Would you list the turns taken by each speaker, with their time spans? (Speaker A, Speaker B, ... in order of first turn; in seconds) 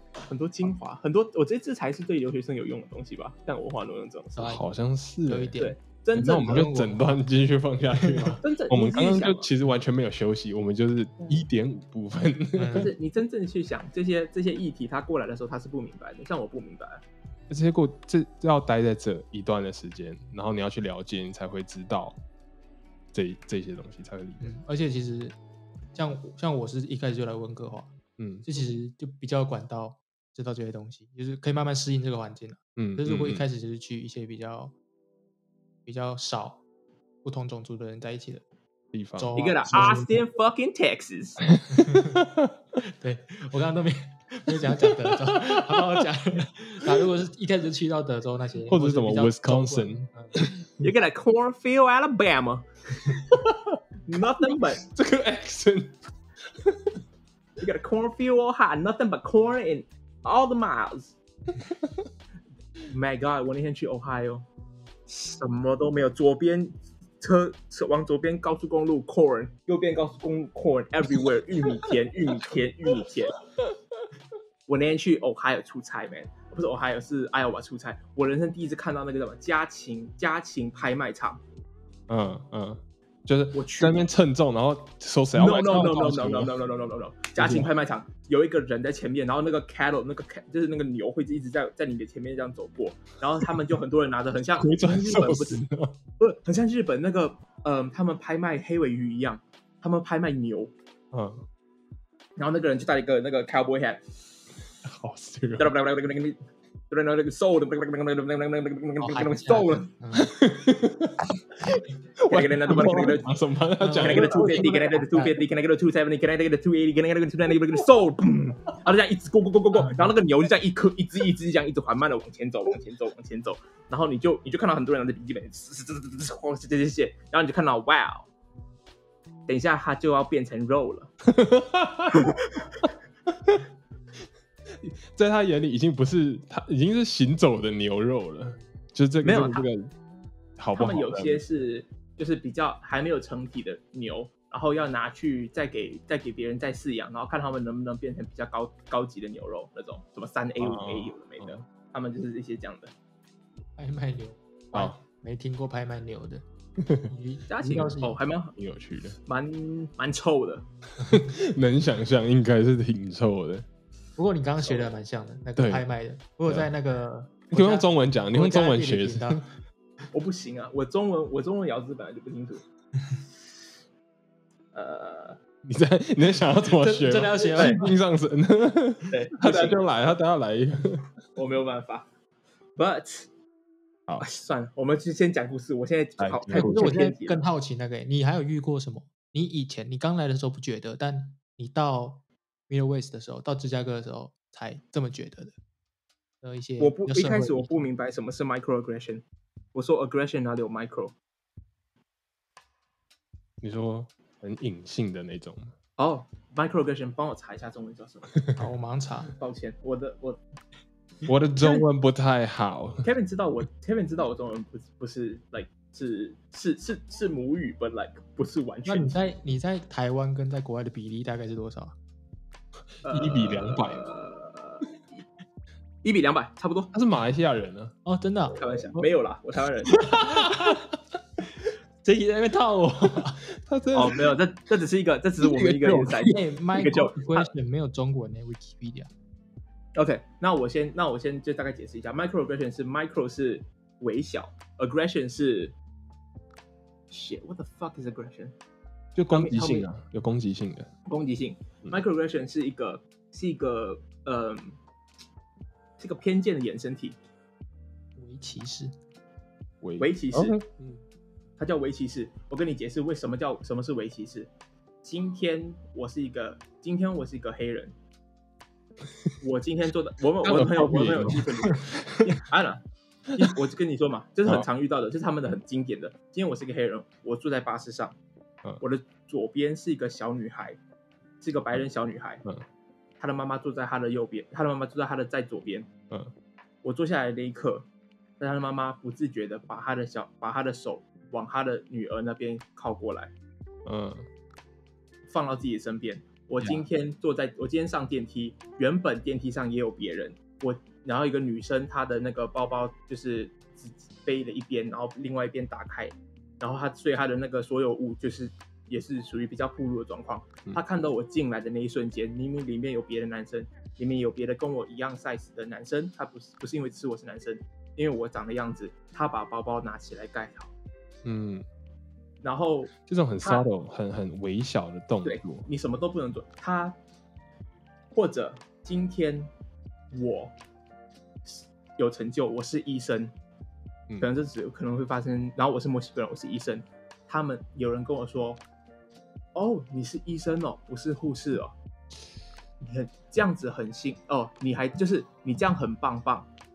Speaker A: 0.2-4.5, 5.6-6.7, 8.4-9.5, 11.2-11.4, 12.7-17.0, 39.4-41.5, 50.8-53.3, 54.1-54.9, 57.6-61.2, 62.8-64.5, 65.1-73.4, 74.7-81.4, 83.5-84.0, 85.3-95.6, 96.2-100.7, 102.4-104.0, 105.6-106.4, 106.9-109.9, 112.3-113.4, 114.0-128.3, 129.5-131.1, 132.1-132.6, 139.2-139.7, 140.8-152.9, 157.5-158.6, 159.3-160.7, 170.1-172.6, 174.7-175.4, 177.4-177.9, 179.1-179.8, 181.3-182.1, 182.8-183.3, 184.2-187.5, 196.8-201.2, 206.0-208.5, 209.3-210.4, 211.6-211.8, 213.0-219.2, 223.0-224.9, 226.0-226.9, 228.6-230.1, 233.9-237.5, 240.0-245.8, 247.1-248.5, 249.3-249.9, 251.1-254.8, 256.0-257.2, 260.0-260.6, 261.6-264.5, 265.0-267.9, 269.4-272.8, 273.3-278.2, 278.8-280.8, 281.4-282.4, 283.2-285.9, 286.8-287.9, 288.4-293.3, 295.3-320.7, 322.4-323.7, 325.2-327.0, 328.1-329.5, 330.1-330.5, 331.4-333.3, 334.2-338.6, 339.6-341.7, 342.8-346.5
Speaker B: 4.3-4.6, 5.3-7.2, 8.0-8.4, 12.5-12.9, 24.4-25.4, 25.9-34.7, 35.9-36.6, 37.2-38.5, 39.2-40.2, 41.7-42.2, 42.8-50.4, 109.0-110.3, 113.8-115.4, 153.8-156.4, 157.1-158.2, 164.2-169.4, 176.9-177.9, 186.5-195.6, 196.4-197.9, 208.6-209.3, 218.8-221.9, 228.1-229.1, 230.1-230.8, 232.0-233.4, 236.3-239.1, 258.2-258.9
Speaker C: 4.4-5.5, 6.2-12.9, 17.5-22.2, 23.1-24.5, 28.2-28.5, 32.8-33.5, 38.9-39.9, 41.6-42.5, 44.9-46.0, 48.7-50.7, 53.3-53.8, 54.7-57.0, 82.1-86.5, 87.4-87.7, 94.6-96.0, 101.1-101.5, 104.8-105.7, 110.2-111.3, 112.2-114.7, 131.3-132.4, 134.7-139.9, 140.6-141.4, 150.6-151.6, 154.7-155.0, 156.8-157.1, 158.6-159.2, 161.0-163.7, 165.6-165.9, 167.5-169.4, 175.6-181.1, 186.2-186.9, 203.6-205.7, 211.3-213.1, 223.0-224.1, 226.9-227.9, 230.0-230.8, 233.5-234.3, 235.4-236.4, 249.2-250.9, 259.8-261.0, 270.4-272.3, 293.9-294.3, 321.2-321.7, 323.0-325.7